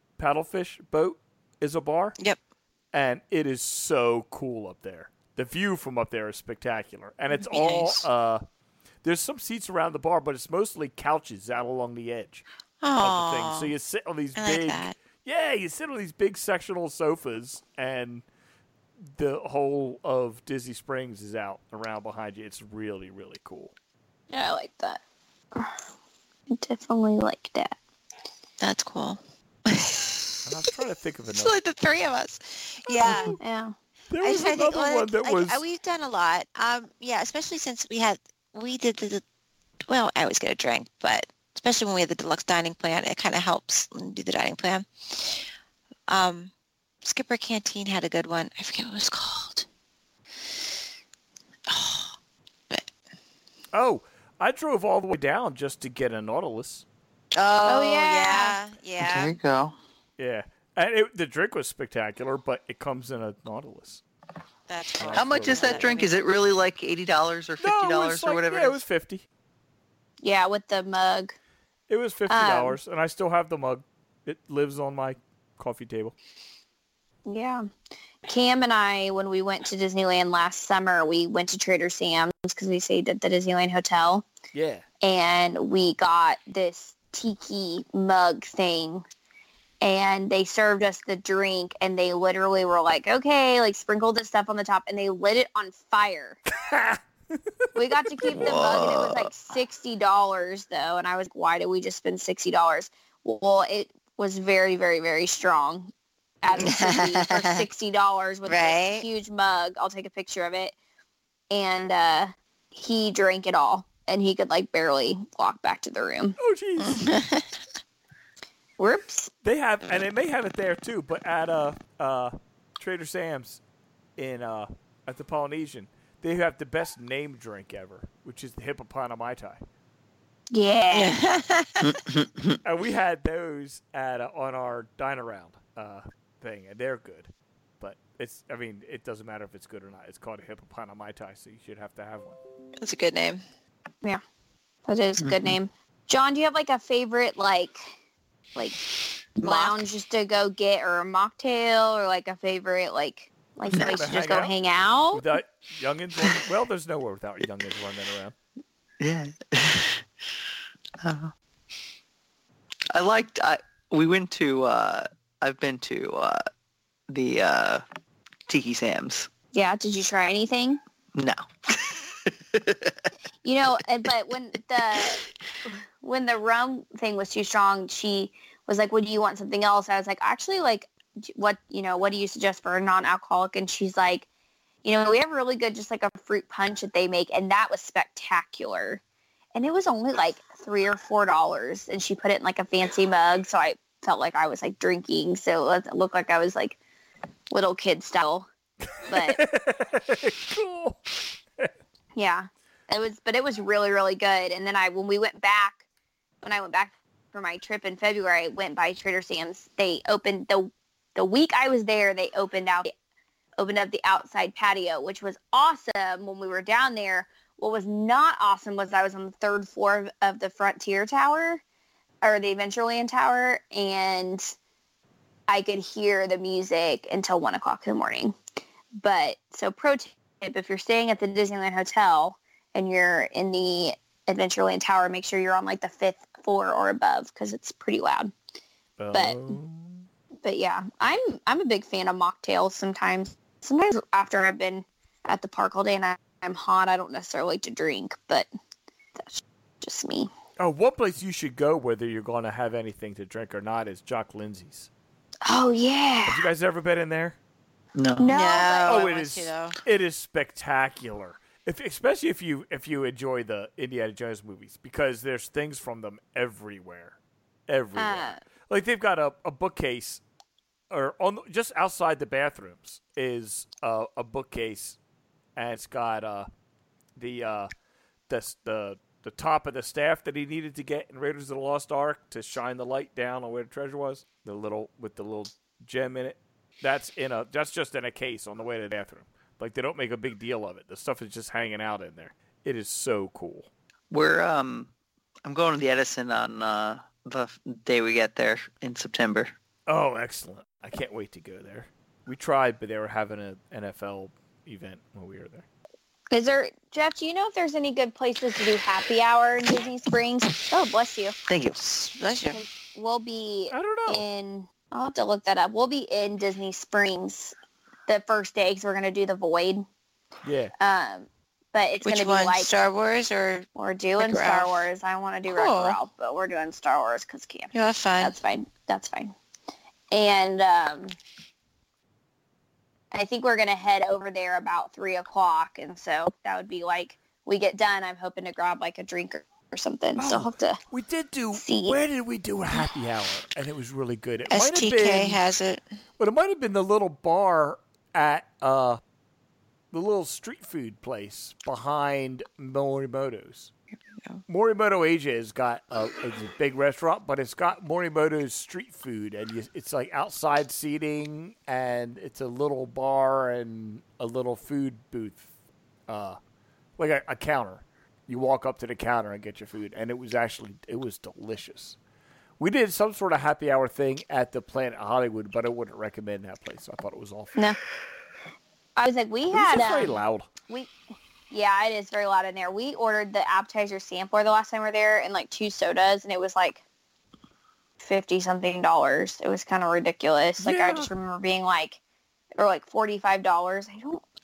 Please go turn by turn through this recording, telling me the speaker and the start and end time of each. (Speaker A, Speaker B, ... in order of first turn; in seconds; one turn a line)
Speaker A: 0.2-2.1
Speaker A: 2.9-8.4
Speaker B: 7.3-8.1
Speaker A: 9.0-12.4
Speaker B: 12.8-13.7
Speaker A: 13.0-18.2
Speaker B: 14.4-14.9
Speaker A: 19.1-23.7
Speaker C: 24.3-25.0
Speaker C: 26.5-27.8
Speaker B: 28.6-30.4
Speaker A: 30.4-31.5
Speaker B: 31.3-33.4
Speaker A: 33.0-33.4
Speaker C: 33.0-33.7
Speaker A: 34.1-35.6
Speaker B: 34.2-39.2
Speaker B: 39.9-45.4
Speaker B: 46.1-46.5
Speaker B: 47.0-49.6
Speaker B: 51.7-52.1
Speaker A: 53.7-56.8
Speaker B: 57.3-59.3
Speaker C: 57.6-58.6
Speaker D: 59.0-59.7
Speaker A: 60.2-64.0
Speaker B: 64.7-66.1
Speaker A: 65.0-65.9
Speaker D: 65.1-68.8
Speaker A: 67.6-69.2
Speaker C: 70.2-71.3
Speaker A: 71.9-76.1
Speaker C: 72.3-72.8
Speaker C: 77.2-77.6
Speaker C: 78.2-84.2
Speaker A: 84.5-84.8
Speaker C: 85.0-89.0
Speaker C: 89.8-96.4
Speaker A: 96.6-97.4
Speaker C: 97.7-110.7
Speaker A: 97.9-98.6
Speaker D: 98.3-99.3
Speaker B: 106.6-107.7
Speaker B: 108.5-109.0
Speaker C: 111.5-116.4
Speaker A: 116.4-117.1
Speaker B: 116.8-117.5
Speaker C: 118.8-119.3
Speaker A: 119.4-123.6
Speaker A: 124.2-129.6
Speaker C: 130.5-131.2
Speaker B: 130.9-131.9
Speaker D: 131.8-132.6
Speaker A: 132.6-142.4
Speaker B: 142.8-143.4
Speaker C: 144.9-147.8
Speaker D: 145.2-145.6
Speaker C: 149.4-155.2
Speaker B: 149.4-149.8
Speaker A: 153.7-154.5
Speaker A: 155.1-158.3
Speaker D: 159.0-160.0
Speaker D: 161.0-161.3
Speaker D: 162.9-166.4
Speaker D: 167.1-167.8
Speaker D: 168.5-169.3
Speaker C: 169.5-170.8
Speaker D: 171.1-172.9
Speaker C: 173.4-175.2
Speaker C: 176.0-184.2
Speaker C: 184.8-189.0
Speaker C: 189.5-196.8
Speaker C: 197.5-198.5
Speaker A: 199.0-201.7
Speaker C: 199.1-199.4
Speaker C: 202.2-205.8
Speaker C: 206.4-212.9
Speaker C: 213.6-221.6
Speaker C: 222.2-224.5
Speaker C: 225.5-228.3
Speaker C: 229.0-238.3
Speaker A: 239.0-240.0
Speaker C: 239.1-239.4
Speaker C: 240.4-248.5
Speaker C: 249.2-250.3
Speaker A: 250.6-254.9
Speaker C: 255.4-256.5
Speaker A: 256.3-257.4
Speaker D: 257.9-258.3
Speaker C: 258.2-259.0
Speaker B: 258.3-259.8
Speaker A: 258.9-267.1
Speaker A: 267.7-270.2
Speaker C: 267.9-268.4
Speaker A: 270.9-275.0
Speaker A: 275.6-276.5
Speaker A: 277.2-277.7
Speaker A: 278.3-293.7
Speaker D: 294.1-294.9
Speaker D: 295.4-299.5
Speaker A: 299.9-305.6
Speaker C: 306.3-311.3
Speaker D: 311.5-312.0
Speaker B: 311.9-312.6
Speaker C: 312.5-317.5
Speaker A: 313.7-314.2
Speaker C: 318.1-319.8
Speaker A: 320.4-320.7
Speaker C: 320.8-322.7
Speaker B: 322.0-323.6
Speaker C: 323.7-329.3
Speaker B: 324.2-324.7
Speaker B: 325.5-326.0
Speaker B: 327.7-328.3
Speaker C: 330.1-331.1
Speaker C: 333.1-340.8
Speaker A: 340.2-345.4
Speaker C: 341.5-342.0
Speaker B: 344.5-345.8
Speaker A: 346.2-349.0
Speaker A: 349.9-353.7
Speaker A: 354.4-365.5
Speaker A: 366.1-366.4
Speaker A: 367.0-372.0
Speaker A: 372.6-377.6
Speaker C: 379.0-380.9
Speaker A: 379.5-380.5
Speaker C: 381.5-386.8
Speaker C: 388.0-392.0
Speaker A: 390.6-391.1
Speaker C: 392.6-394.2